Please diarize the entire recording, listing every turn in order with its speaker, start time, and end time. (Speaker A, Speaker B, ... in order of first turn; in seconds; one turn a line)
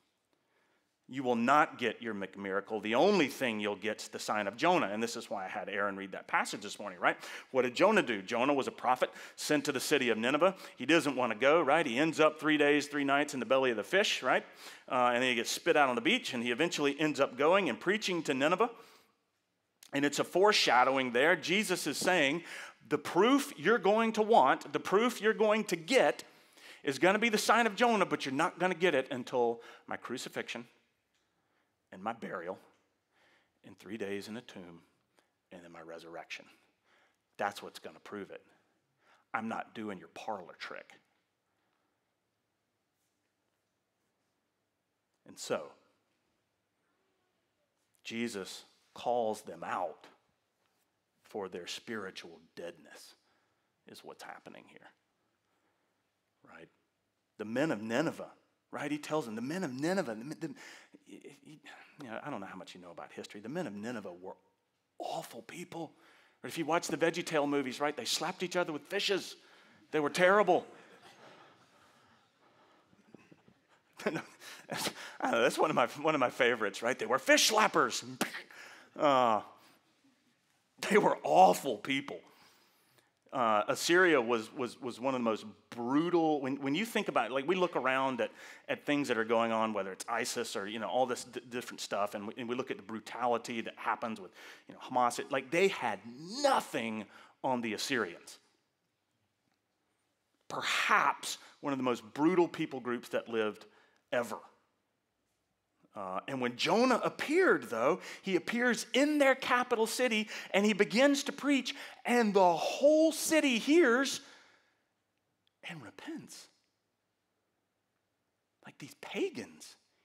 Speaker A: 1.1-18.7
Speaker A: 19.9-26.3
Speaker A: 26.8-30.7
Speaker A: 31.9-32.6
Speaker A: 33.6-34.9
Speaker A: 35.5-36.5
Speaker A: 37.4-38.5
Speaker A: 39.3-41.0
Speaker A: 45.2-45.8
Speaker A: 48.0-50.1
Speaker A: 51.2-53.2
Speaker A: 53.9-54.9
Speaker A: 56.4-56.7
Speaker A: 57.4-64.4
Speaker A: 65.0-69.4
Speaker A: 69.9-70.7
Speaker A: 74.0-79.5
Speaker A: 80.8-82.2
Speaker A: 83.3-98.4
Speaker A: 100.5-104.4
Speaker A: 106.0-114.2
Speaker A: 115.6-116.5
Speaker A: 118.6-119.8